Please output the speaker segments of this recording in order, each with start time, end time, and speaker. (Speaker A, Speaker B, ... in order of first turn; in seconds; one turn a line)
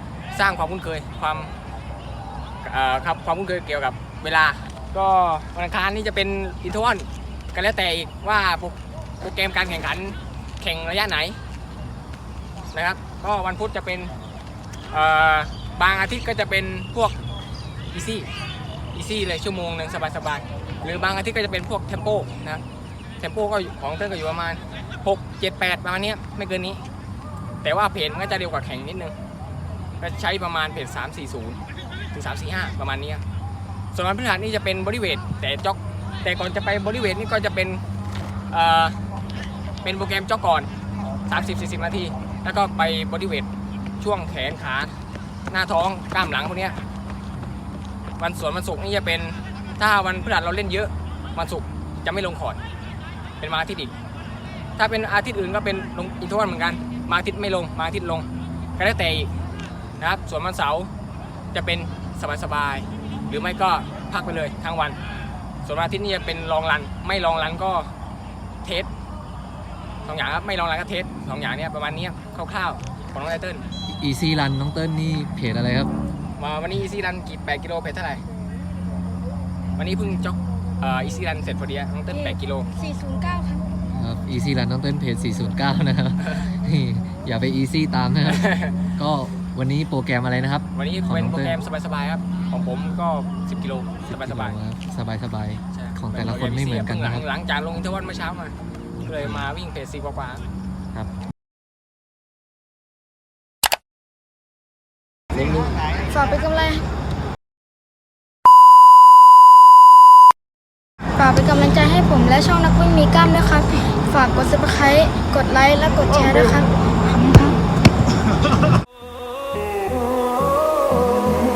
Speaker A: 0.3-1.5
Speaker A: 2.6-11.4
Speaker A: 12.7-14.1
Speaker A: 14.9-17.2
Speaker A: 17.9-18.3
Speaker A: 18.9-22.6
Speaker A: 23.2-26.8
Speaker A: 27.6-29.1
Speaker A: 30.0-31.6
Speaker A: 32.1-33.2
Speaker A: 33.9-37.8
Speaker A: 38.5-39.0
Speaker A: 39.8-40.7
Speaker A: 41.3-43.5
Speaker A: 44.0-44.9
Speaker A: 45.5-46.8
Speaker A: 48.2-52.6
Speaker A: 53.4-53.9
Speaker A: 54.8-59.3
Speaker A: 60.0-60.9
Speaker A: 61.5-65.0
Speaker A: 65.6-67.9
Speaker A: 68.6-68.9
Speaker A: 70.0-73.7
Speaker B: 74.0-75.9
Speaker A: 76.4-78.2
Speaker A: 79.8-82.7
Speaker C: 82.1-83.7
Speaker B: 83.9-88.4
Speaker A: 88.3-88.8
Speaker B: 89.0-91.6
Speaker A: 90.7-94.6
Speaker B: 94.1-97.2
Speaker A: 95.7-98.5
Speaker B: 99.0-99.5
Speaker A: 99.1-100.4
Speaker C: 106.1-106.8
Speaker C: 111.2-117.6